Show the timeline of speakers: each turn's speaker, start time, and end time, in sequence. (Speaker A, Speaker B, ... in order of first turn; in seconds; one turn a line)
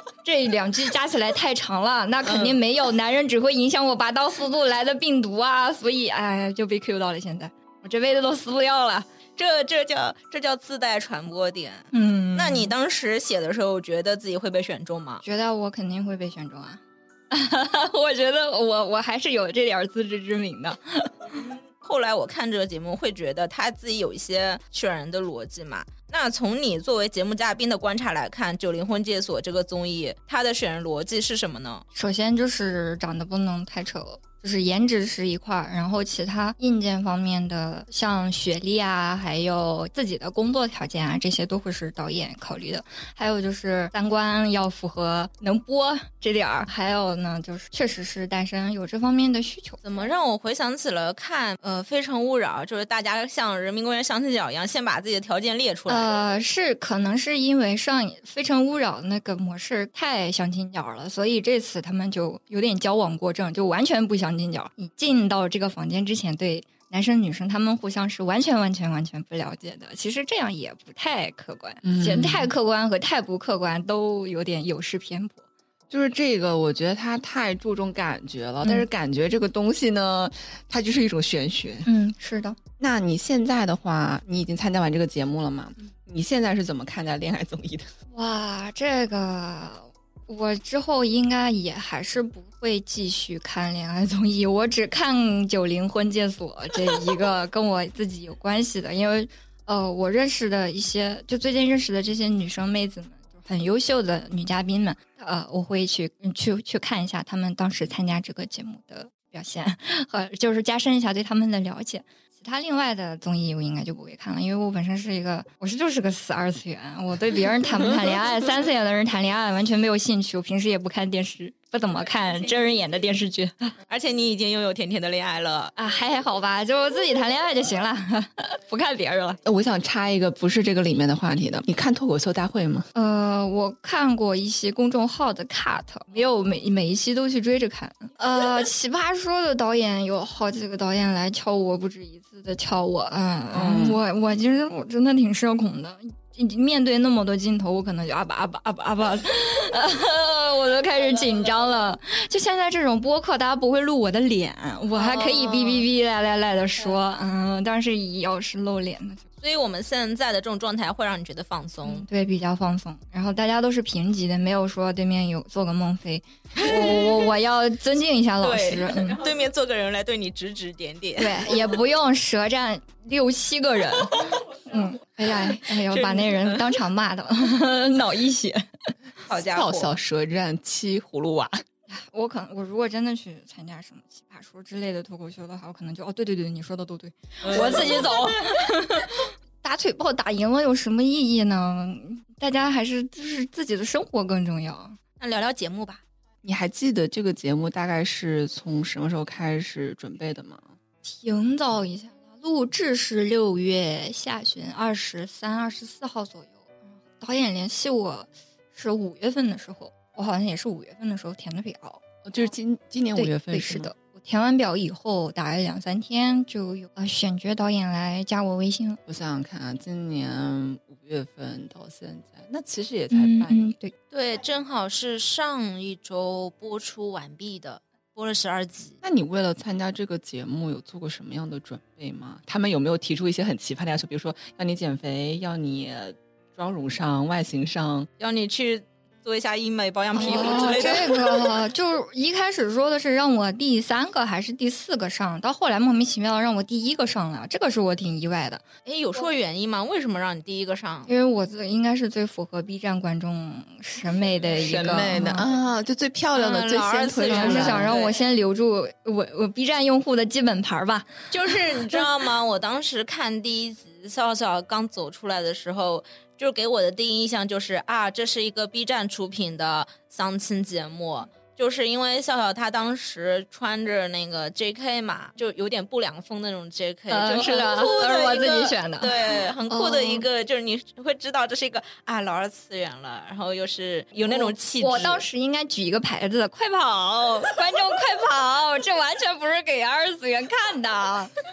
Speaker A: 0.2-9.1
Speaker B: 2.2-2.6
Speaker B: 9.4-15.2
Speaker A: 11.9-12.7
Speaker A: 15.2-21.3
Speaker B: 21.4-31.8
Speaker A: 31.9-49.8
Speaker B: 49.8-56.1
Speaker A: 55.9-75.4
Speaker C: 71.8-72.5
Speaker C: 75.9-81.9
Speaker A: 81.8-82.6
Speaker C: 82.8-87.9
Speaker A: 88.1-123.7
Speaker B: 123.9-125.7
Speaker A: 125.8-129.4
Speaker C: 129.4-132.9
Speaker A: 132.9-159.2
Speaker C: 143.5-144.0
Speaker B: 154.9-155.9
Speaker B: 159.4-162.1
Speaker A: 161.8-169.2
Speaker B: 166.7-167.2
Speaker B: 168.4-171.6
Speaker A: 171.2-178.9
Speaker B: 175.3-176.8
Speaker B: 179.3-179.9
Speaker C: 179.3-181.6
Speaker A: 181.9-195.0
Speaker B: 187.4-188.3
Speaker B: 195.2-196.0
Speaker C: 196.4-200.7
Speaker A: 201.0-212.0
Speaker C: 212.2-213.9
Speaker A: 213.2-219.0
Speaker C: 219.1-223.7
Speaker A: 223.1-223.9
Speaker B: 224.1-229.0
Speaker C: 229.0-238.1
Speaker B: 238.2-241.5
Speaker A: 240.1-248.6
Speaker B: 248.8-251.1
Speaker A: 251.1-255.4
Speaker C: 254.6-257.9
Speaker B: 256.3-258.1
Speaker A: 257.3-262.0
Speaker B: 261.3-285.2
Speaker A: 277.1-280.2
Speaker A: 284.3-291.3